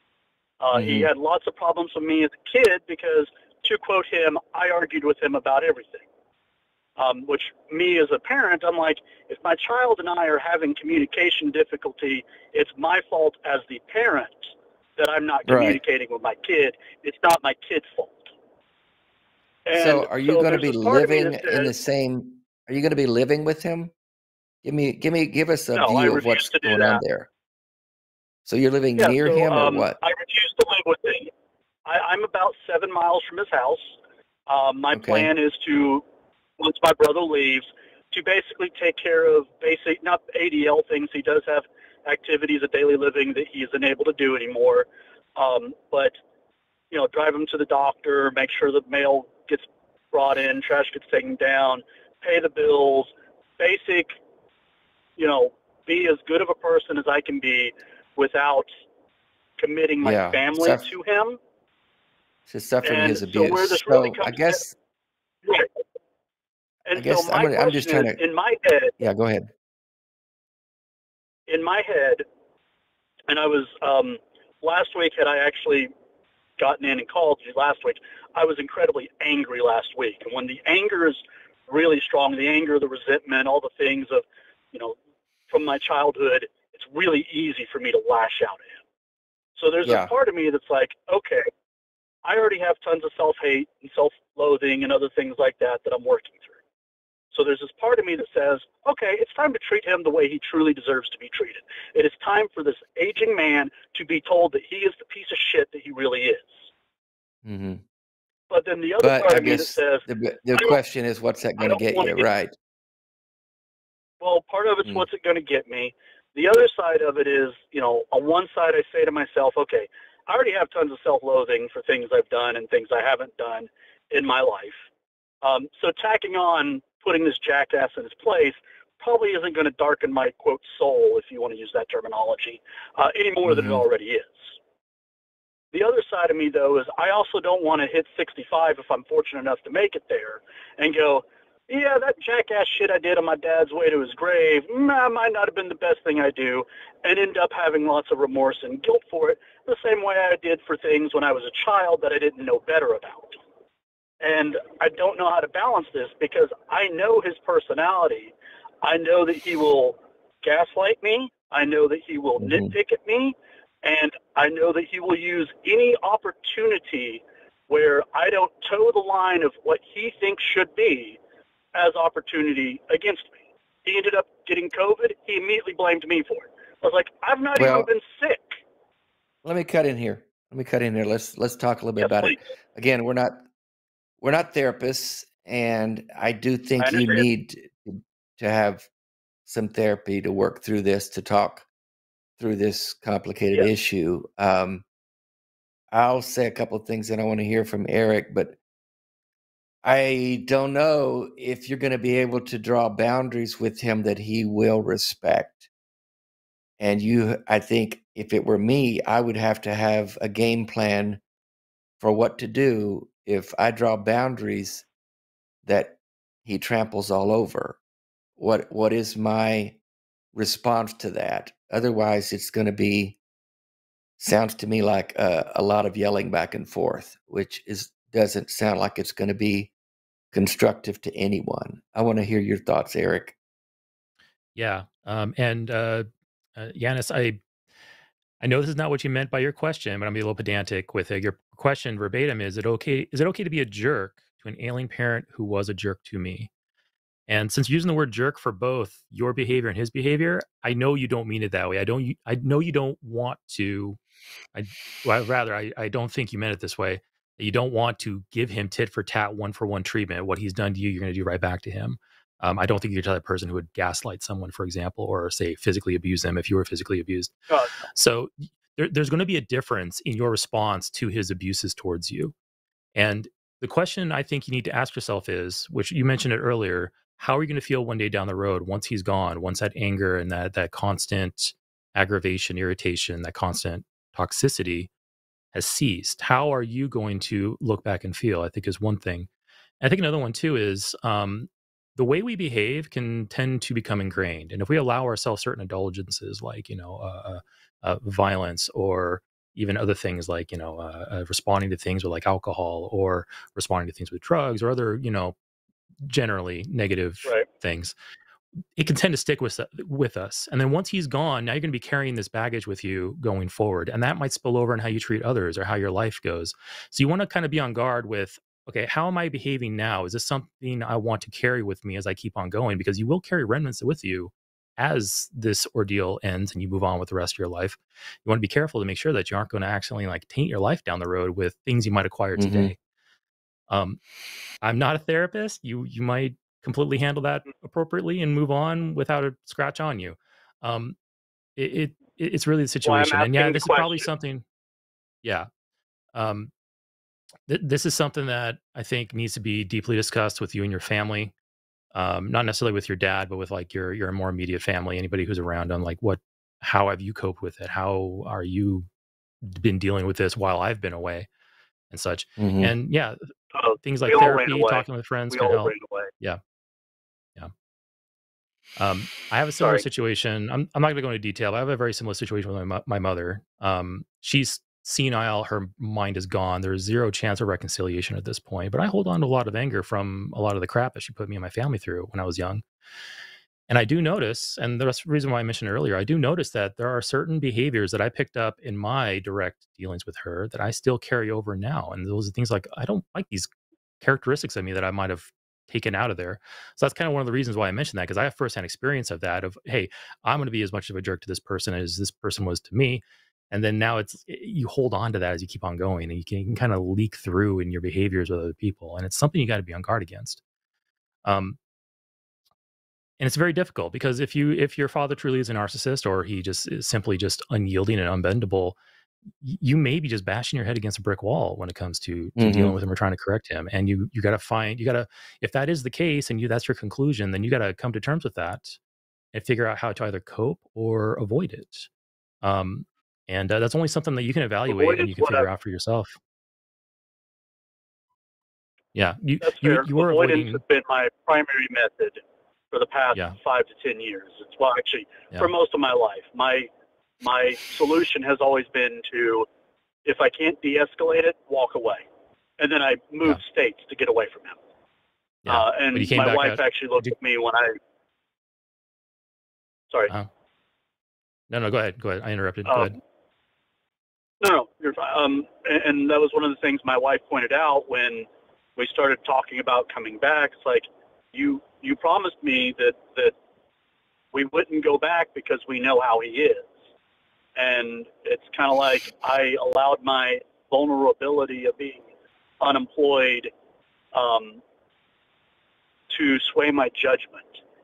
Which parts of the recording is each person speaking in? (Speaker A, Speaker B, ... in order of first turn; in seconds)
Speaker A: 0.6-6.0, 7.0-18.3, 19.6-21.7, 25.7-27.0, 29.0-31.3, 31.8-33.9, 34.5-36.0, 36.6-46.1, 46.9-54.1, 55.2-58.7, 59.6-61.4, 62.8-64.6, 66.9-68.9, 71.5-72.2, 73.3-75.9, 76.6-85.0, 85.5-88.8, 89.5-91.5, 92.2-96.5, 97.3-106.6, 108.5-110.8, 111.6-112.3, 114.2-124.8, 125.4-134.5, 135.7-153.4, 154.2-171.2, 171.7-178.6, 182.0-182.4, 186.8-187.2, 267.5-267.8, 342.8-344.0, 363.5-366.1, 369.6-369.8, 434.7-435.5, 439.4-446.7, 447.2-449.5, 450.0-452.0, 452.6-454.6, 455.4-457.8, 462.7-463.0, 464.4-473.3, 474.3-476.7, 477.6-482.0, 482.6-483.5, 484.1-484.6, 486.1-487.6
Speaker B: 0.7-1.1, 15.4-15.8, 19.7-23.9, 24.6-27.3, 28.4-30.0, 34.9-35.3, 60.0-60.9, 62.5-64.7, 66.9-68.2, 69.0-69.5, 89.8-90.1, 107.4-107.8, 109.0-112.5, 133.4-133.8, 162.4-162.7, 177.6-177.9, 179.4-183.4, 184.2-188.9, 189.4-191.7, 192.4-194.8, 195.9-198.6, 199.8-205.7, 206.8-211.2, 212.0-214.8, 215.7-217.8, 218.4-219.8, 220.3-223.2, 224.2-229.7, 230.3-233.3, 332.4-332.7, 362.4-362.7, 422.4-422.8
Speaker C: 234.6-237.4, 238.4-246.5, 247.3-254.0, 254.5-267.3, 267.9-272.3, 272.9-284.9, 285.5-289.3, 289.8-305.3, 306.0-307.9, 308.8-332.8, 333.7-334.0, 334.6-340.9, 341.6-344.4, 346.1-346.5, 347.5-351.3, 351.9-358.9, 359.4-361.3, 361.9-363.2, 363.8-366.4, 368.8-382.6, 383.7-393.5, 394.0-410.4, 411.2-411.6, 413.2-418.8, 419.4-428.8, 429.3-431.9, 432.4-436.2, 438.9-440.6, 455.4-457.1, 461.5-463.0